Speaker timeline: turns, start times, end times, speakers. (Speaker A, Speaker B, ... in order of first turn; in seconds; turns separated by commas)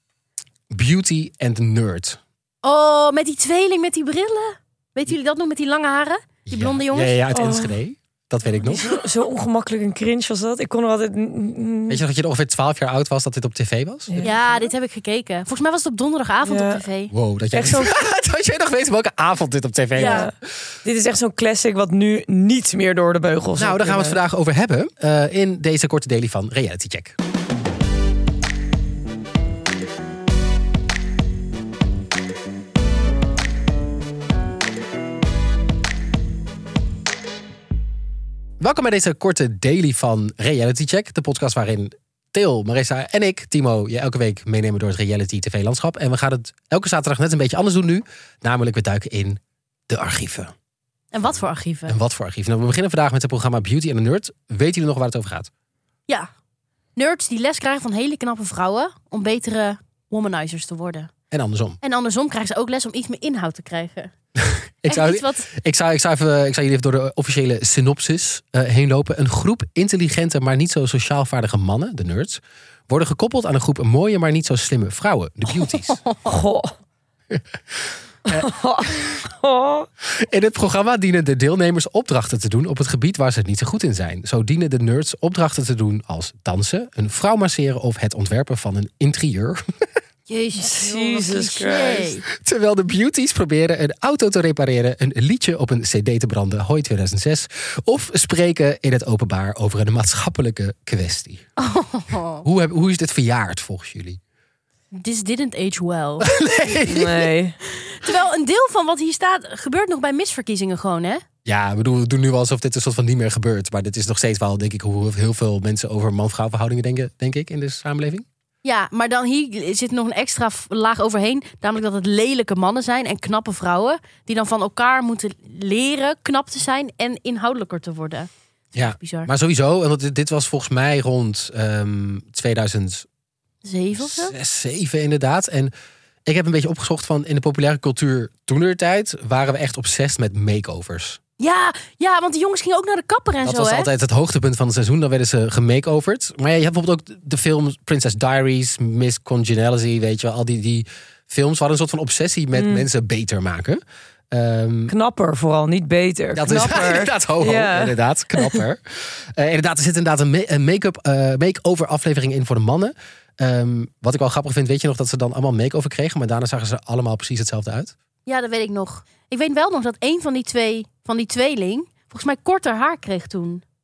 Speaker A: 0.7-2.2, Speaker B: 2.6-7.2, Speaker A: 6.5-8.9, Speaker C: 7.3-7.7, Speaker C: 8.6-12.0, Speaker A: 11.9-14.3, Speaker C: 14.1-14.7, Speaker B: 14.2-17.1, Speaker C: 16.4-16.9, Speaker A: 17.1-20.3, Speaker C: 17.5-17.9, Speaker B: 19.9-20.3, Speaker C: 20.0-24.2, Speaker A: 23.6-27.1, Speaker A: 38.6-50.5, Speaker B: 51.1-52.0, Speaker A: 51.9-55.5, Speaker B: 57.0-61.1, Speaker A: 61.3-61.8, Speaker B: 61.8-64.1, Speaker A: 64.3-76.0, Speaker B: 64.9-65.5, Speaker B: 76.0-76.3, Speaker C: 76.2-76.7, Speaker C: 78.3-79.9, Speaker A: 80.1-89.6, Speaker B: 90.3-92.2, Speaker C: 90.5-92.1, Speaker A: 92.3-101.4, Speaker B: 101.6-102.4, Speaker A: 102.4-104.2, Speaker B: 104.9-106.3, Speaker A: 106.2-107.3, Speaker C: 106.9-107.6, Speaker B: 107.7-111.2, Speaker A: 111.4-118.2, Speaker B: 118.6-129.3, Speaker A: 128.7-133.1, Speaker B: 133.6-134.3, Speaker A: 133.9-135.7, Speaker A: 136.2-141.2, Speaker B: 141.4-143.9, Speaker A: 143.4-154.9, Speaker C: 152.5-152.9, Speaker C: 154.9-158.6, Speaker A: 156.3-167.9, Speaker B: 168.3-173.6